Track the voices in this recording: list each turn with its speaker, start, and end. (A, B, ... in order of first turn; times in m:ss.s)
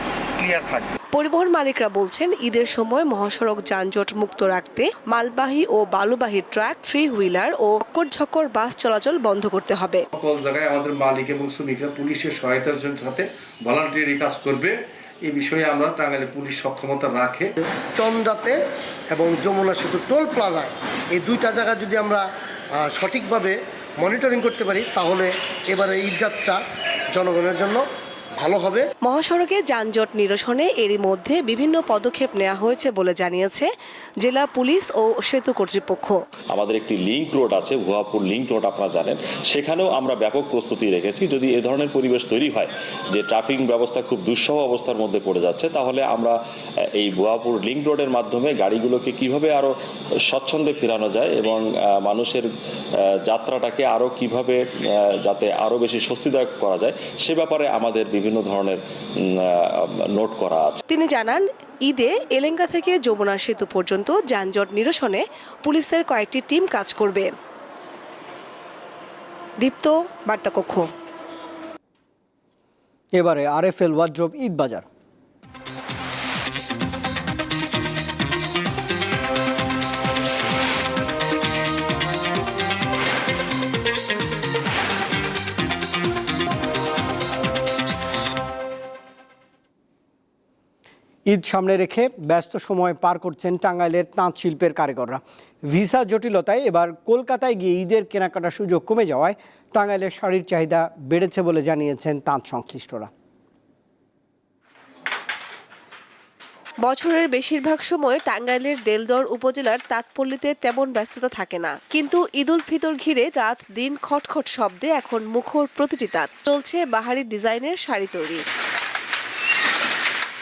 0:00.4-0:01.0 A
0:01.1-0:10.0 B
0:10.1-0:14.7 C
0:15.2-0:17.5 C
0:18.0-0:18.6 A
0:19.1-0:22.2 A
0:22.8-0:26.6 A
0:27.1-0:27.8 A
0:28.4-0:28.9 A
0:29.0-0:33.7 B
0:34.2-0:36.2 B
0:36.5-0:46.4 D
0:46.9-0:49.7 D
0:50.3-0:52.5 D
0:53.3-0:54.6 D
0:55.2-1:00.8 D
1:00.9-1:07.3 B
1:09.6-1:10.9 B
1:13.2-1:14.8 E
1:31.3-1:43.1 E
1:46.8-1:58.4 B